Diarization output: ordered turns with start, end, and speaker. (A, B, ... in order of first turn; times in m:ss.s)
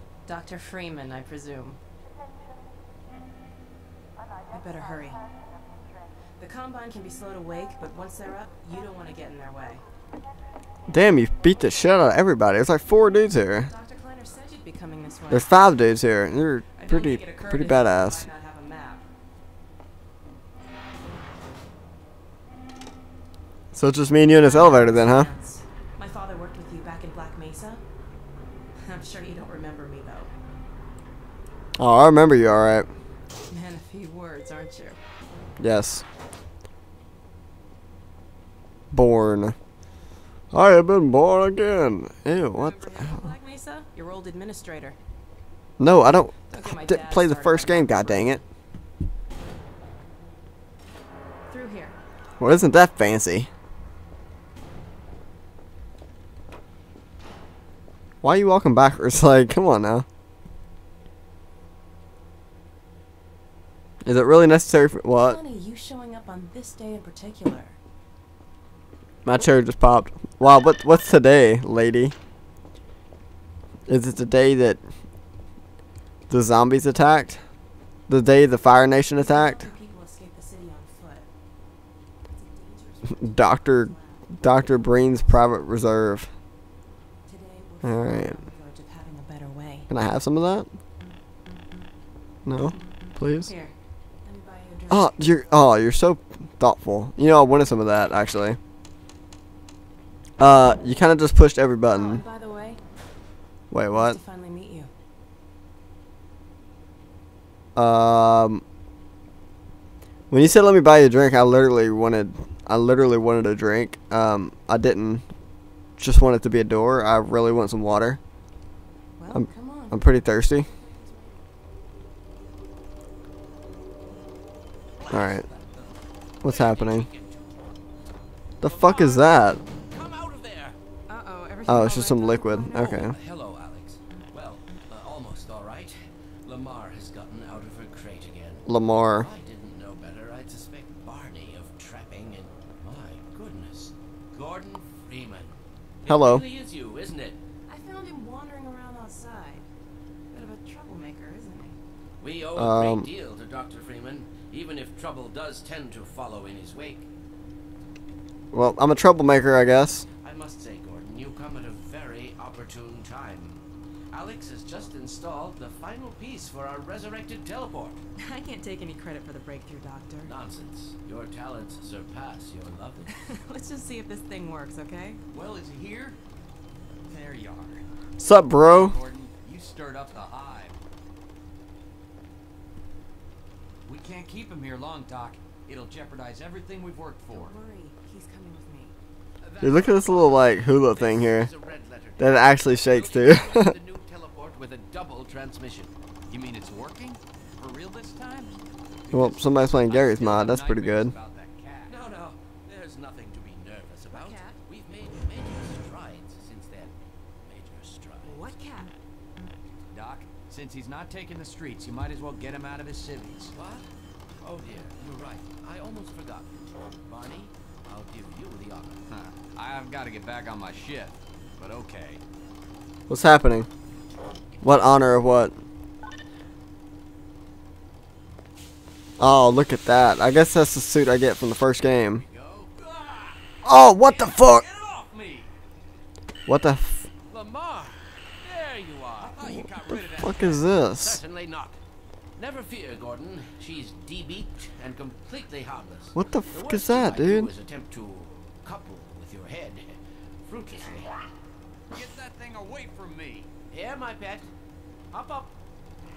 0:00.2-0:01.8 A
0:04.5-0:05.2 A
0:06.4-0:09.8 A
0:10.9-0:13.7 B
0:13.6-0:15.5 A
0:15.3-0:18.2 B
0:16.7-0:19.0 A
0:23.7-0:25.3 B
0:24.4-0:27.8 A
0:28.8-0:30.3 A
0:31.8-0:32.9 B
0:33.5-0:35.0 A
0:35.6-0:36.0 B
0:38.9-0:39.5 B
0:40.5-0:42.7 B
0:42.4-0:45.0 A
0:45.8-0:48.4 B
0:46.5-0:48.4 A
0:51.5-0:52.0 A
0:52.4-0:53.5 B
0:58.2-1:00.0 B
1:04.0-1:05.4 B
1:05.2-1:07.7 A
1:09.2-1:12.1 B
1:13.9-1:14.8 B
1:16.3-1:17.4 B
1:18.1-1:19.7 B
1:19.1-1:21.3 A
1:22.2-1:25.5 A
1:23.1-1:26.3 B
1:27.2-1:29.9 A
1:27.8-1:28.4 B
1:29.9-1:30.7 B
1:32.4-1:33.5 B
1:33.4-1:33.7 A
1:34.2-1:35.3 A
1:34.9-1:38.6 B
1:40.4-1:42.2 B
1:41.9-1:42.8 A
1:43.7-1:44.2 B
1:43.9-1:44.9 A
1:47.8-1:48.6 B
1:50.3-1:55.2 B
1:56.0-1:58.2 B
1:59.2-2:01.4 A
1:59.3-2:00.7 B
2:05.0-2:07.6 C
2:05.1-2:05.4 B
2:06.4-2:07.1 B
2:08.6-2:09.6 B
2:08.6-2:10.8 C
2:11.1-2:13.1 A
2:11.6-2:13.1 B
2:12.7-2:27.4 C
2:18.6-2:19.3 B
2:26.0-2:26.4 B
2:27.7-2:29.7 A
2:30.3-2:31.8 A
2:32.2-2:37.1 C
2:32.6-2:33.0 B
2:38.5-2:40.0 B
2:40.2-2:48.0 C
2:48.2-2:50.3 A
2:50.2-2:53.1 C
2:53.1-2:55.2 A
2:55.3-2:56.2 D
2:57.1-2:57.8 D
2:58.2-2:59.0 B
2:58.5-3:00.8 D
3:03.8-3:07.5 D
3:07.3-3:08.9 A
3:09.4-3:10.4 D
3:09.6-3:11.5 B
3:09.6-3:15.9 C
3:12.2-3:13.7 B
3:16.3-3:21.9 D
3:19.1-3:21.1 B
3:21.9-3:28.5 C
3:24.1-3:24.6 A
3:28.2-3:28.9 A
3:29.9-3:33.5 D
3:33.5-3:33.9 C
3:34.4-3:39.0 C
3:39.1-3:42.2 D
3:43.1-3:43.7 B
3:44.6-3:45.5 B
3:49.2-3:52.2 B
3:52.3-3:53.4 C
3:53.6-3:54.6 B
3:54.2-3:55.5 D
3:56.4-3:57.1 B
3:57.3-3:59.4 C
3:59.2-4:00.7 D
3:59.6-4:01.2 B
4:00.4-4:01.8 C
4:02.4-4:11.3 C
4:06.1-4:07.5 B
4:11.9-4:13.5 D
4:13.7-4:14.5 C
4:15.1-4:15.6 C